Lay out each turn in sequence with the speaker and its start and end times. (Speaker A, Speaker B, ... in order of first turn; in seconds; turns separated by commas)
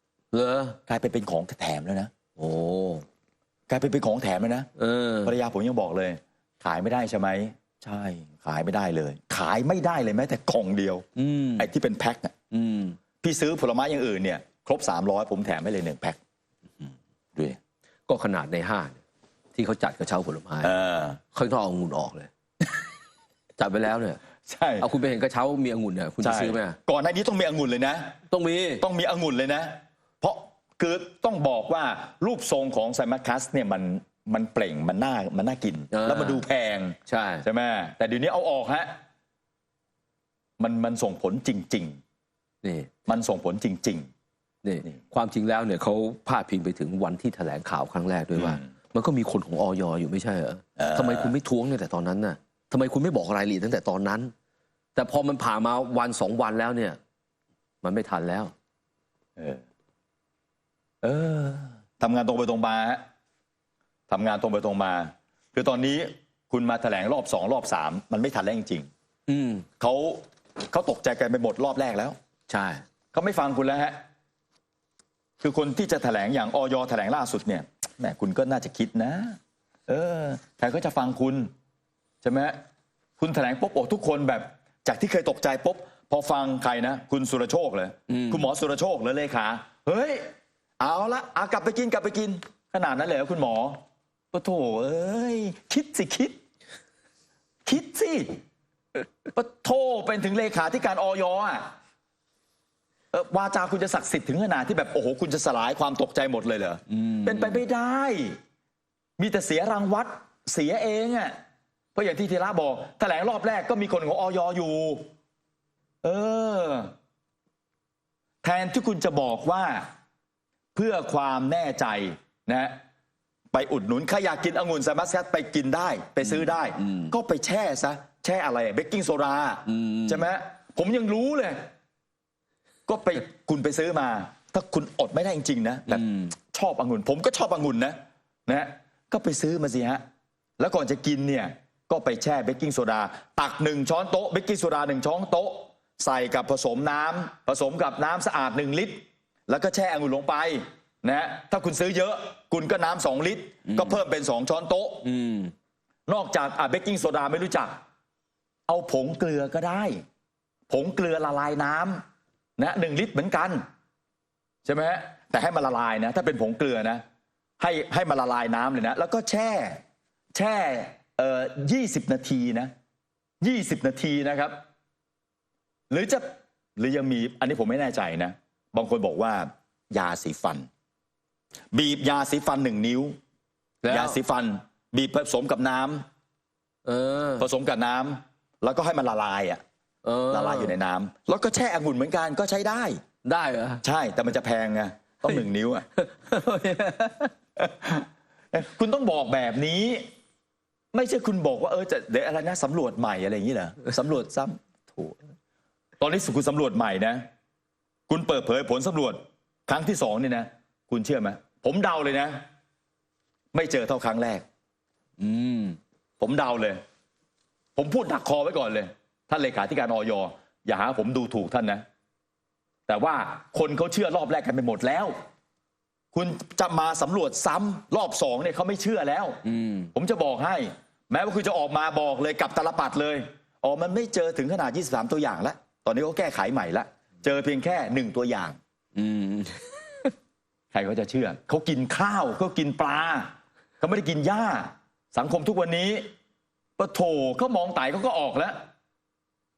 Speaker A: 0.3-0.8, Speaker B: 0.9-2.1, Speaker A: 2.4-3.0, Speaker B: 3.7-4.7, Speaker A: 4.8-5.3, Speaker B: 5.2-11.0, Speaker A: 11.2-11.7, Speaker B: 11.6-12.3, Speaker A: 12.5-13.0, Speaker B: 13.2-16.2, Speaker A: 18.1-19.0, Speaker A: 19.5-20.7, Speaker B: 20.6-21.2, Speaker A: 21.3-22.3, Speaker A: 23.6-24.2, Speaker B: 24.4-24.9, Speaker A: 24.8-26.8, Speaker B: 26.2-28.1, Speaker A: 28.3-28.8, Speaker B: 28.8-38.9, Speaker A: 35.9-36.4, Speaker A: 37.1-37.4, Speaker B: 40.6-42.0, Speaker A: 42.6-42.9, Speaker B: 43.1-44.1, Speaker A: 44.6-54.3, Speaker B: 48.4-48.6, Speaker B: 50.8-51.3, Speaker A: 55.0-57.0, Speaker A: 57.8-58.5, Speaker B: 61.0-63.0, Speaker B: 64.1-68.9, Speaker A: 69.3-69.7, Speaker B: 69.8-72.2, Speaker A: 72.5-72.8, Speaker B: 73.1-74.0, Speaker B: 75.4-81.5, Speaker B: 82.2-82.6, Speaker B: 83.2-90.2, Speaker A: 88.1-88.5, Speaker B: 90.8-93.8, Speaker B: 94.3-96.4, Speaker B: 97.7-98.3, Speaker B: 99.3-101.7, Speaker B: 103.1-108.4, Speaker A: 106.9-107.6, Speaker B: 109.2-111.3, Speaker B: 111.9-115.0, Speaker B: 116.0-116.9, Speaker B: 118.4-119.9, Speaker B: 120.7-122.8, Speaker B: 123.5-131.7, Speaker A: 126.2-127.1, Speaker A: 129.7-130.2, Speaker B: 132.9-140.0, Speaker A: 135.9-136.3, Speaker B: 140.6-155.0, Speaker A: 153.7-154.0, Speaker A: 155.0-155.5, Speaker B: 156.1-157.8, Speaker B: 158.7-160.0, Speaker B: 160.7-162.0, Speaker B: 162.6-163.6, Speaker B: 164.6-167.0, Speaker B: 167.6-169.8, Speaker B: 170.3-172.7, Speaker B: 173.4-174.6, Speaker B: 175.9-180.7, Speaker B: 181.7-183.2, Speaker A: 183.8-184.2, Speaker B: 183.9-186.0, Speaker A: 186.8-187.4, Speaker B: 187.4-189.6, Speaker A: 190.0-190.7, Speaker B: 190.3-193.0, Speaker A: 193.2-193.8, Speaker B: 193.8-195.8, Speaker A: 196.0-197.3, Speaker B: 197.6-200.1, Speaker B: 200.9-205.2, Speaker B: 206.0-207.2, Speaker B: 208.1-212.4, Speaker B: 213.5-214.4, Speaker A: 215.2-215.8, Speaker B: 216.2-216.8, Speaker B: 217.8-221.8, Speaker B: 222.9-225.2, Speaker B: 226.1-229.4, Speaker A: 229.4-229.9, Speaker B: 229.9-238.6, Speaker A: 238.9-240.1, Speaker B: 240.7-246.1, Speaker B: 246.8-248.6